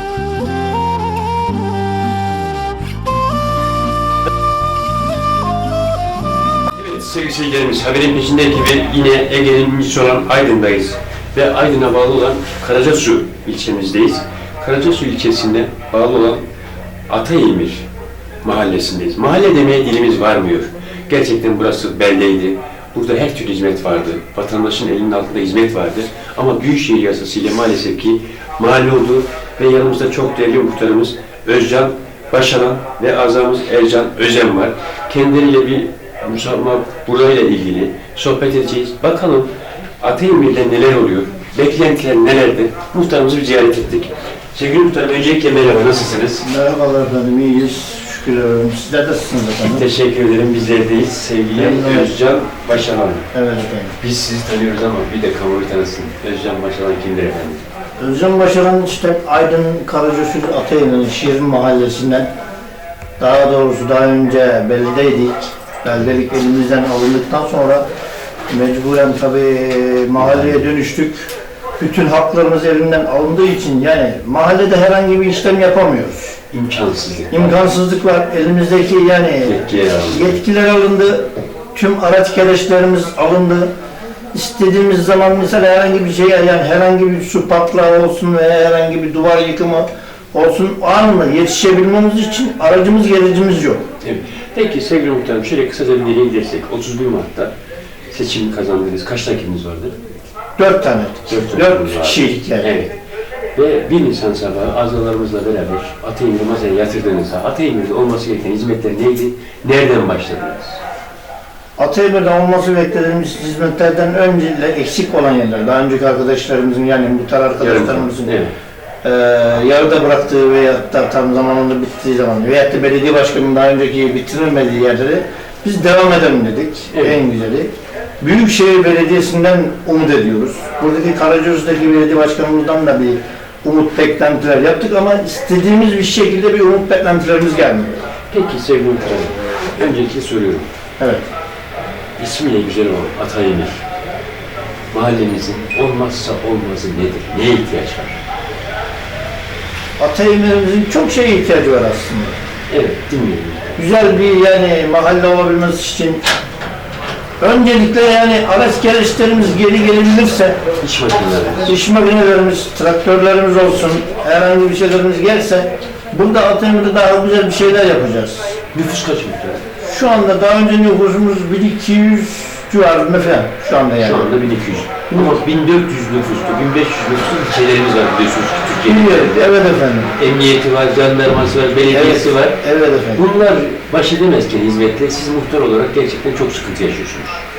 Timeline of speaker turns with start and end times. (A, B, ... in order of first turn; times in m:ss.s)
0:06.7-0:16.4 A
0:17.1-0:17.8 A
0:18.4-0:46.4 A
0:46.4-0:49.8 B
0:49.6-0:53.2 A
0:51.5-0:52.1 B
0:53.3-0:54.0 B
0:54.0-0:57.6 A
0:58.0-1:02.3 B
1:03.2-1:07.8 B
1:08.5-1:16.4 B
1:10.2-1:10.6 A
1:16.5-1:17.5 A
1:17.3-1:19.6 B
1:19.4-1:20.4 A
1:20.1-1:23.7 B
1:24.3-1:33.8 B
1:34.0-1:37.5 A
1:38.1-1:40.0 A
1:40.6-1:42.7 B
1:41.3-1:42.9 A
1:43.5-1:50.8 A
1:51.8-1:58.3 B
1:57.6-1:58.5 A
1:59.0-2:18.0 B
2:06.9-2:07.2 A
2:18.3-2:20.7 A
2:21.0-2:21.2 B
2:22.2-2:23.8 A
2:24.9-2:28.2 A
2:30.0-2:32.4 B
2:32.7-2:33.8 A
2:33.8-2:36.2 B
2:37.4-2:40.6 B
2:40.8-2:41.7 A
2:41.6-2:48.6 B
2:48.7-2:49.6 A
2:49.8-2:54.3 B
2:54.0-2:59.5 A
2:55.1-2:55.4 B
2:58.8-3:00.1 B
3:00.2-3:02.6 A
3:01.9-3:03.2 B
3:03.1-3:07.4 A